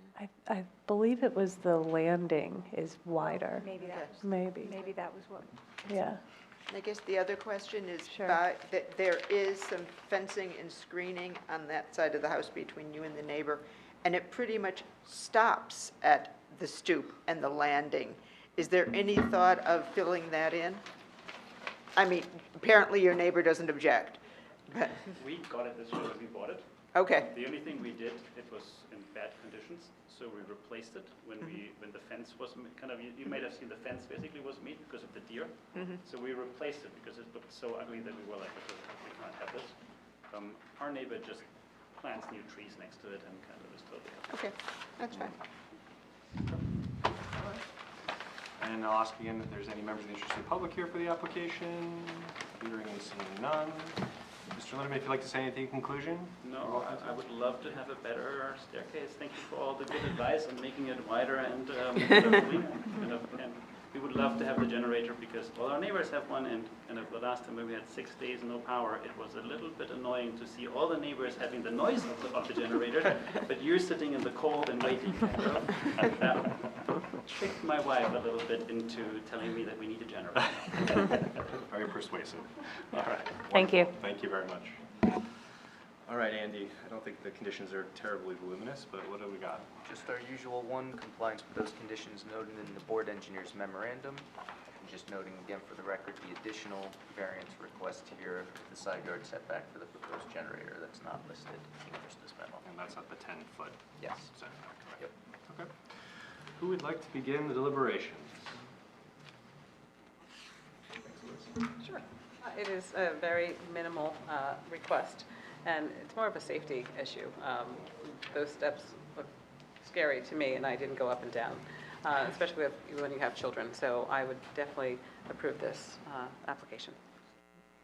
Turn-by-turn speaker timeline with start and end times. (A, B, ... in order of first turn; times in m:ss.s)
0:00.1-0:03.7 A
0:03.2-0:05.7 B
0:03.8-0:04.2 C
0:04.2-0:04.8 A
0:05.9-0:06.2 A
0:06.7-0:20.8 C
0:08.1-0:08.4 A
0:22.0-0:25.1 C
0:25.1-0:44.4 D
0:26.9-0:27.3 C
0:35.7-0:36.0 C
0:44.3-0:45.3 C
0:47.2-0:47.6 E
0:48.6-0:57.2 E
0:56.4-1:21.3 D
1:21.4-1:25.2 E
1:23.5-1:23.9 A
1:26.0-1:29.7 E
1:29.8-1:34.3 F
1:34.8-1:42.6 F
1:42.6-1:45.7 E
1:44.0-1:44.3 F
1:46.6-1:48.6 E
1:51.0-1:51.6 E
1:51.8-1:59.3 G
1:59.8-2:07.0 G